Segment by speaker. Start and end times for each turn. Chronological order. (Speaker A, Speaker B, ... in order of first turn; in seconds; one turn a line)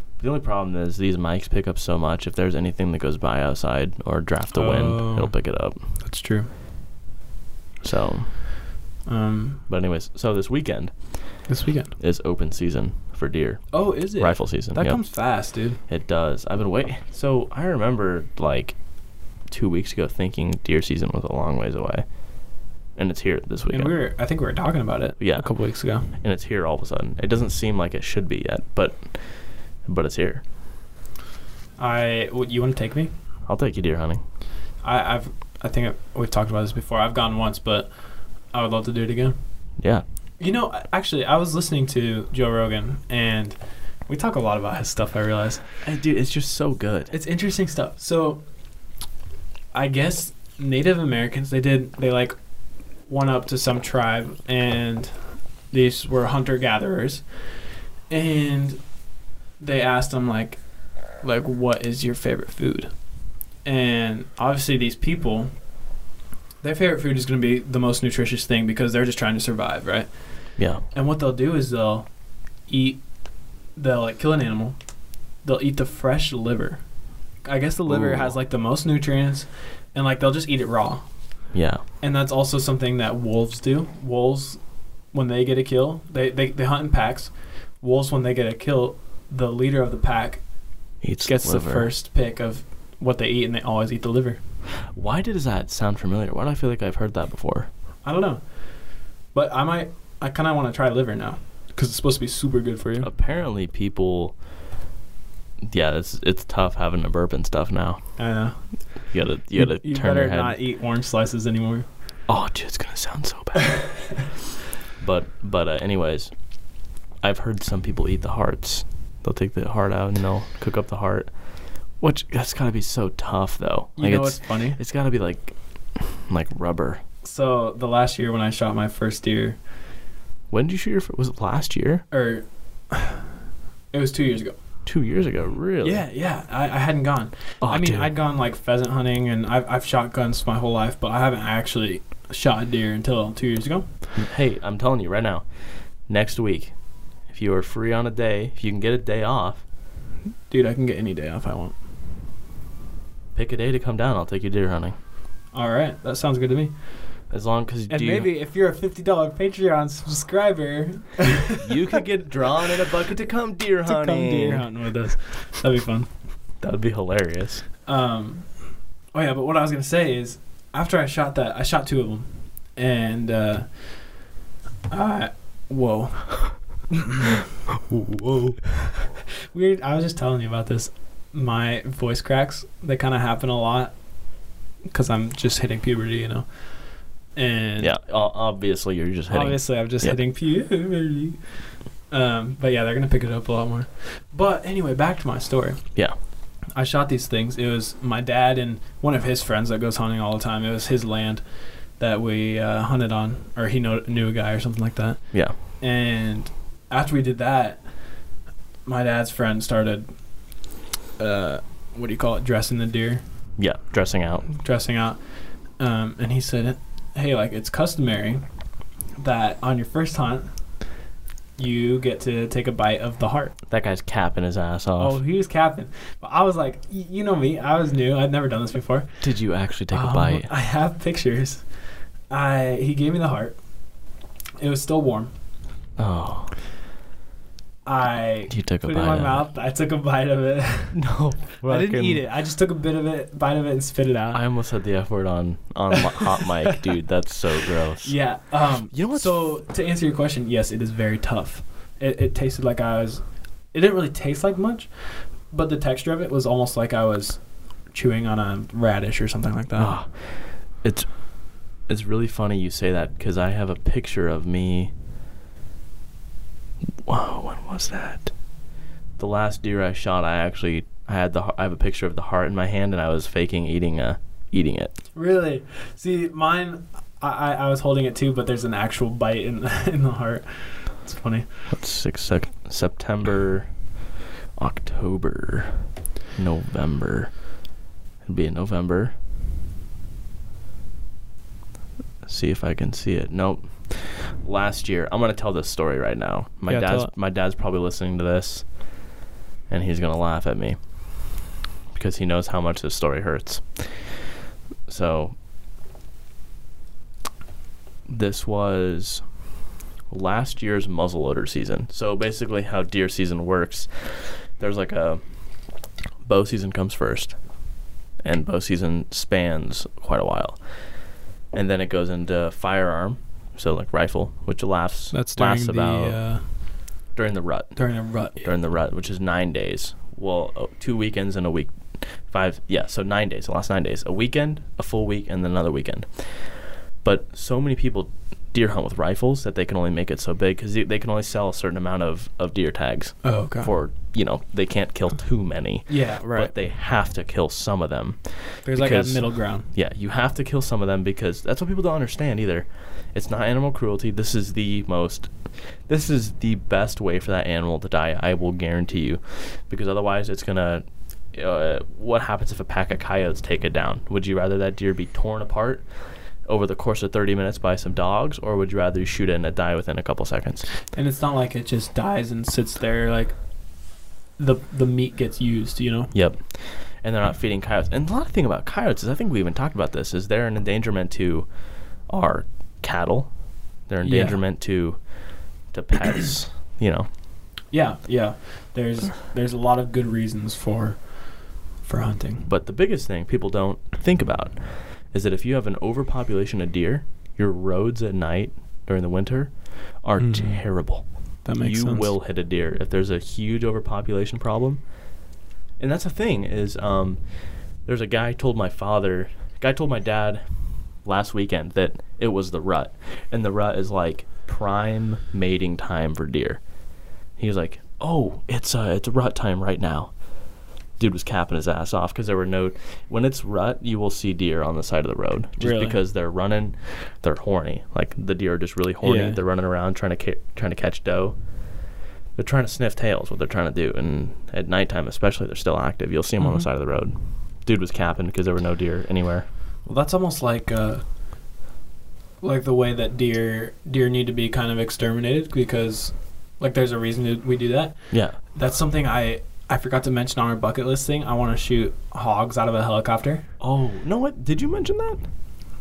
Speaker A: 0.2-5.8
Speaker B: 4.5-6.5
Speaker A: 7.8-8.3
Speaker B: 9.1-9.6
Speaker A: 9.7-24.0
Speaker B: 11.5-11.9
Speaker B: 13.7-15.8
Speaker B: 23.7-26.1
Speaker A: 25.2-30.4
Speaker B: 31.8-33.1
Speaker A: 33.4-34.2
Speaker B: 34.8-39.7
Speaker A: 39.8-40.0
Speaker B: 40.4-45.7
Speaker A: 45.8-47.1
Speaker B: 47.1-48.4
Speaker B: 49.7-59.0
Speaker B: 59.6-65.6
Speaker B: 66.6-94.4
Speaker A: 70.6-70.8
Speaker A: 77.8-78.4
Speaker A: 81.5-81.8
Speaker A: 91.0-91.9
Speaker A: 94.9-97.7
Speaker B: 98.0-103.1
Speaker A: 103.0-104.4
Speaker A: 105.6-110.6
Speaker B: 108.2-111.9
Speaker A: 112.3-114.2
Speaker A: 115.0-127.0
Speaker B: 124.0-124.8
Speaker B: 127.2-129.6
Speaker A: 130.5-132.1
Speaker B: 132.1-133.2
Speaker B: 133.9-134.8
Speaker A: 134.8-136.1
Speaker B: 135.8-143.9
Speaker A: 137.6-138.1
Speaker A: 144.1-149.6
Speaker B: 150.5-151.8
Speaker A: 153.3-154.9
Speaker B: 155.5-157.3
Speaker A: 157.3-158.3
Speaker B: 157.9-161.7
Speaker A: 161.6-164.7
Speaker B: 163.8-166.1
Speaker A: 166.6-167.7
Speaker B: 167.8-174.2
Speaker B: 174.9-177.2
Speaker A: 177.9-178.5
Speaker B: 179.5-187.9
Speaker A: 187.8-190.2
Speaker B: 189.3-208.3
Speaker B: 208.8-213.6
Speaker A: 213.6-214.5
Speaker B: 214.5-221.0
Speaker B: 221.6-223.6
Speaker A: 223.7-225.2
Speaker B: 225.0-231.7
Speaker A: 229.2-230.5
Speaker B: 232.3-235.3
Speaker A: 235.9-236.6
Speaker B: 237.8-241.1
Speaker A: 238.5-239.4
Speaker A: 240.9-242.2
Speaker B: 241.6-244.4
Speaker A: 244.3-249.6
Speaker B: 248.0-260.0
Speaker A: 259.8-264.9
Speaker A: 267.0-268.3
Speaker A: 269.2-274.9
Speaker B: 275.1-281.6
Speaker A: 281.7-283.9
Speaker A: 284.6-287.6
Speaker A: 288.2-289.1
Speaker A: 292.2-299.1
Speaker B: 296.7-297.1
Speaker A: 299.7-304.2
Speaker A: 304.9-305.4
Speaker A: 308.1-309.4
Speaker A: 310.1-326.5
Speaker B: 325.1-326.7
Speaker A: 327.1-370.7
Speaker B: 327.7-328.5
Speaker B: 343.2-343.7
Speaker B: 345.9-346.5
Speaker B: 348.6-349.7
Speaker B: 370.9-376.1
Speaker A: 376.1-387.1
Speaker B: 384.0-384.4
Speaker B: 387.7-392.5
Speaker A: 392.4-439.5
Speaker B: 400.2-402.1
Speaker B: 425.6-426.0
Speaker B: 429.0-429.4
Speaker B: 436.4-436.7
Speaker B: 439.8-441.3
Speaker B: 442.4-453.5
Speaker A: 448.1-448.4
Speaker A: 453.6-455.2